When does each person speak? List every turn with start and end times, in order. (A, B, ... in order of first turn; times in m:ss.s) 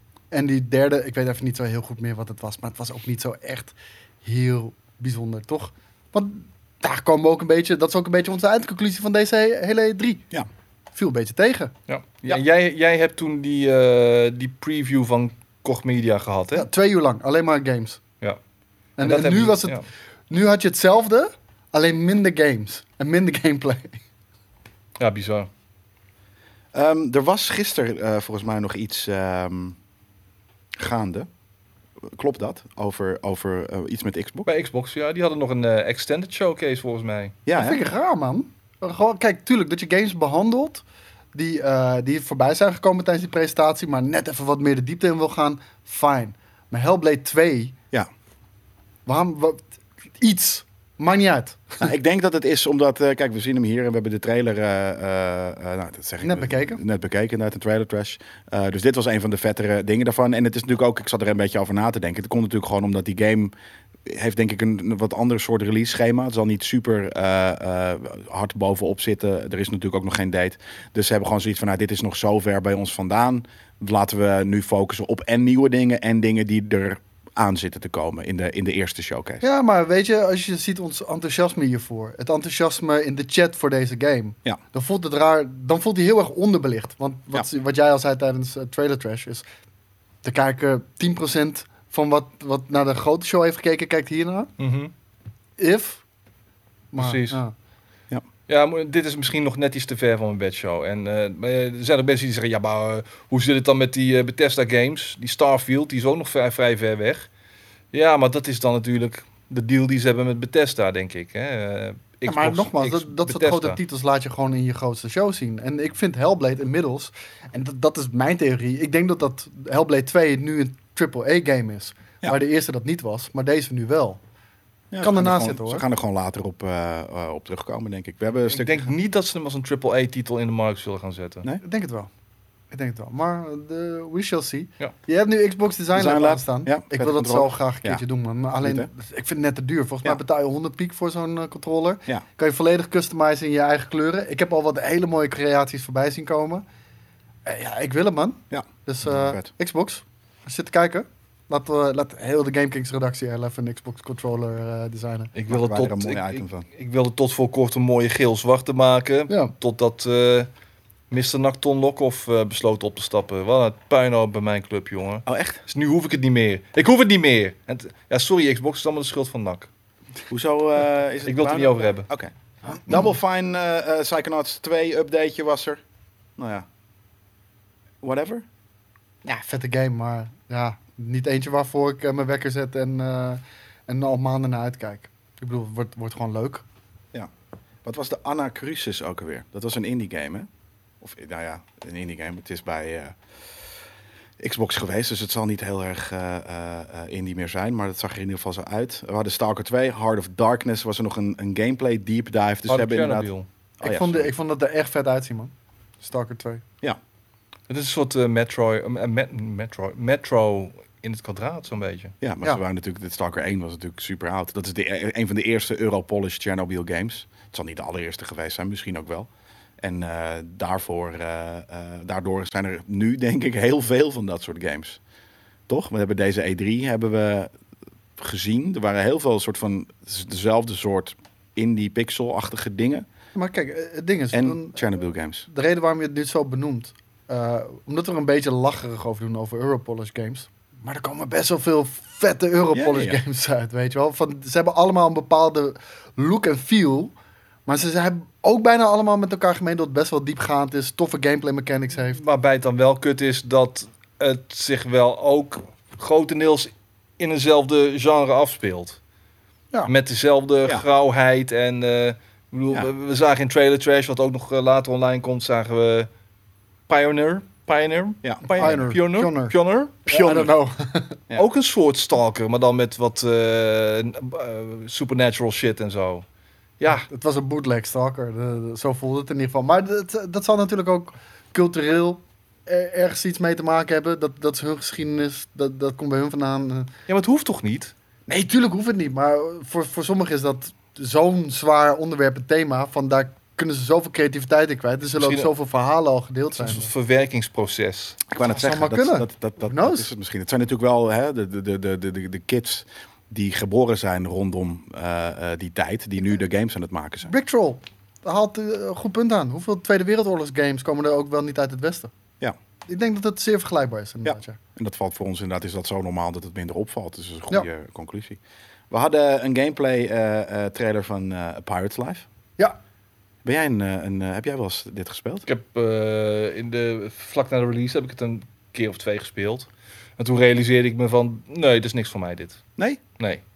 0:00.3-0:10.2 A
0:10.9-0:11.7 A
0:11.9-0:16.7 B
0:16.5-0:18.0 A
0:19.0-0:19.8 A
0:19.0-0:19.8 B
0:20.3-0:24.0 A
0:25.0-0:25.5 B
0:26.7-0:29.8 C
0:30.8-0:31.3 C
0:32.0-0:34.5 C
0:34.5-0:37.4 B
0:37.5-0:37.8 C
0:37.6-0:47.8 A
0:49.1-0:49.7 A
0:50.2-0:51.8 A
0:51.8-1:03.5 C
0:56.2-0:56.8 A
1:04.0-1:19.4 C
1:19.4-1:29.4 A
1:30.2-1:34.5 A
1:34.6-1:34.9 B
1:35.6-1:36.0 A
1:36.9-1:37.5 A
1:37.0-1:37.4 B
1:38.5-1:47.3 B
1:47.9-1:53.8 B
1:52.2-2:04.2 A
2:04.9-2:08.9 C
2:05.0-2:05.8 A
2:08.5-2:11.5 B
2:11.6-2:12.1 A
2:12.7-2:26.6 A
2:15.9-2:18.0 C
2:18.6-2:18.9 C
2:27.5-2:35.3 A
2:28.5-2:29.5 C
2:35.3-2:40.5 B
2:35.5-2:36.7 C
2:41.1-2:49.7 B
2:45.3-2:45.6 C
2:50.3-2:55.8 C
2:51.2-2:52.1 B
2:56.4-2:56.7 C
2:58.0-2:58.4 C
2:59.2-3:06.6 A
3:07.8-3:10.5 C
3:11.0-3:13.2 C
3:14.4-3:23.3 C
3:22.7-3:23.5 B
3:23.8-3:24.3 C
3:23.8-3:26.6 A
3:27.7-3:32.2 B
3:32.2-3:39.3 C
3:39.8-3:45.0 C
3:45.7-3:47.5 C
3:48.2-3:53.1 C
3:53.4-3:54.8 A
3:54.3-3:55.5 C
3:55.5-4:07.1 A
4:02.7-4:03.2 C
4:07.7-4:12.2 A
4:12.1-4:19.0 B
4:19.9-4:26.1 B
4:26.9-4:30.5 B
4:28.2-4:28.8 C
4:28.5-4:29.5 A
4:30.1-4:31.2 A
4:31.3-4:36.2 B
4:36.8-4:37.1 B
4:36.9-4:46.9 A
4:47.1-4:47.9 B
4:48.3-4:56.9 A
4:55.2-4:55.5 B
4:56.6-4:58.2 B
4:58.3-5:07.3 C
4:58.5-5:00.1 A
5:07.3-5:12.1 A
5:12.9-5:14.6 A
5:14.2-5:18.4 C
5:18.9-5:22.3 C
5:23.4-5:25.5 C
5:25.5-5:32.6 B